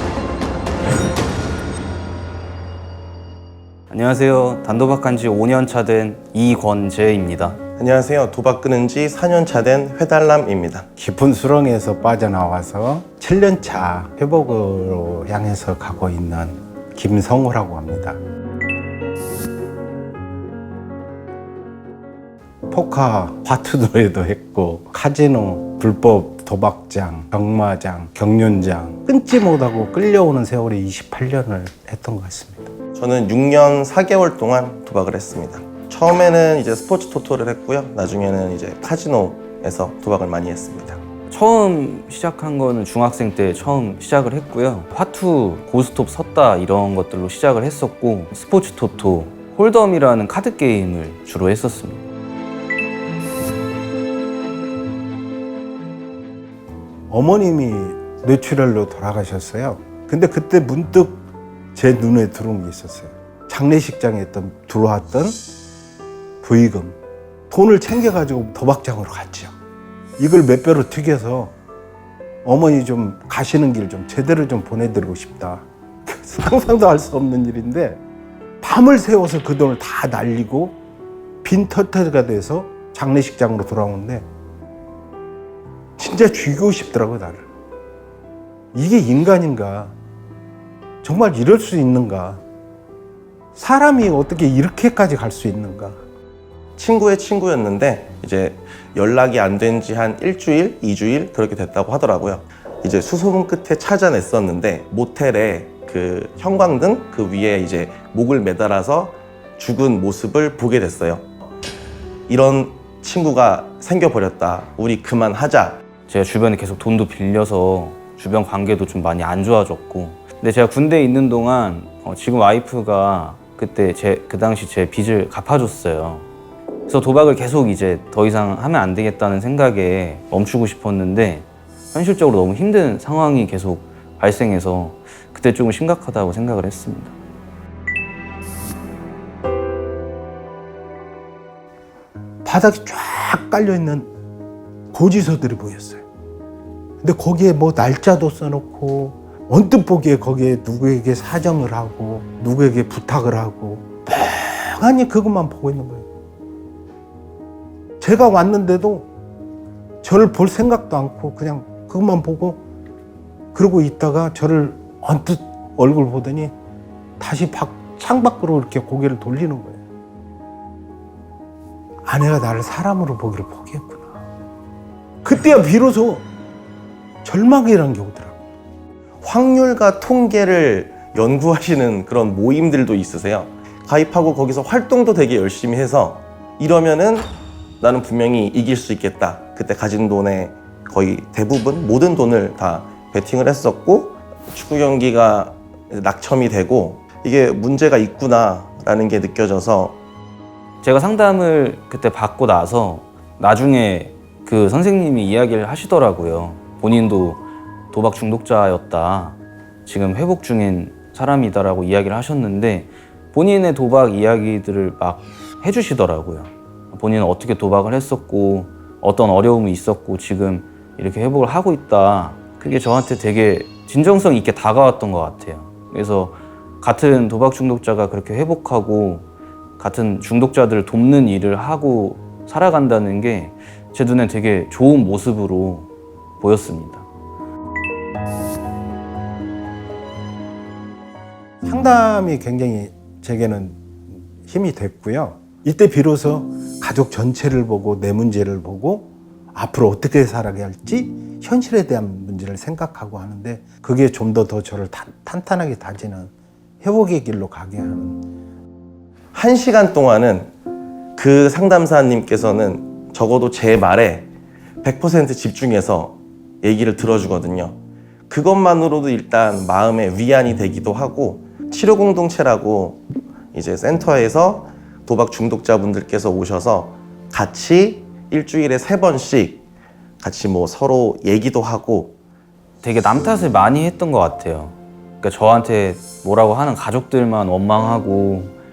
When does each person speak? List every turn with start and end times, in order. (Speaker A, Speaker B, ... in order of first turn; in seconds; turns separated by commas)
Speaker A: 3.9-7.6, Speaker B: 7.8-10.9, Speaker C: 11.0-18.2, Speaker C: 22.7-32.7, Speaker B: 33.0-41.0, Speaker A: 41.3-52.0, Speaker C: 57.1-61.2, Speaker C: 61.7-65.4, Speaker C: 66.4-67.0, Speaker C: 67.5-69.5, Speaker C: 70.2-71.5, Speaker C: 72.4-78.0, Speaker C: 78.6-80.8, Speaker C: 81.4-84.3, Speaker C: 86.0-87.5, Speaker C: 88.7-90.0, Speaker C: 91.0-92.4, Speaker C: 93.5-96.0, Speaker B: 96.8-111.3, Speaker B: 112.3-115.8, Speaker A: 116.1-126.3, Speaker A: 126.9-137.1, Speaker C: 142.4-144.1, Speaker C: 144.9-146.1, Speaker C: 147.0-156.1, Speaker C: 158.0-159.1, Speaker C: 160.0-162.6, Speaker C: 163.5-166.5, Speaker C: 167.2-169.8, Speaker C: 172.1-174.2, Speaker C: 175.2-176.3, Speaker C: 177.2-178.4, Speaker B: 179.2-200.0, Speaker A: 200.8-229.3, Speaker A: 229.8-235.9, Speaker A: 236.4-237.1, Speaker C: 241.6-258.2, Speaker B: 259.3-260.5, Speaker B: 261.2-264.3, Speaker B: 264.8-279.6, Speaker B: 280.2-282.2, Speaker A: 282.8-288.6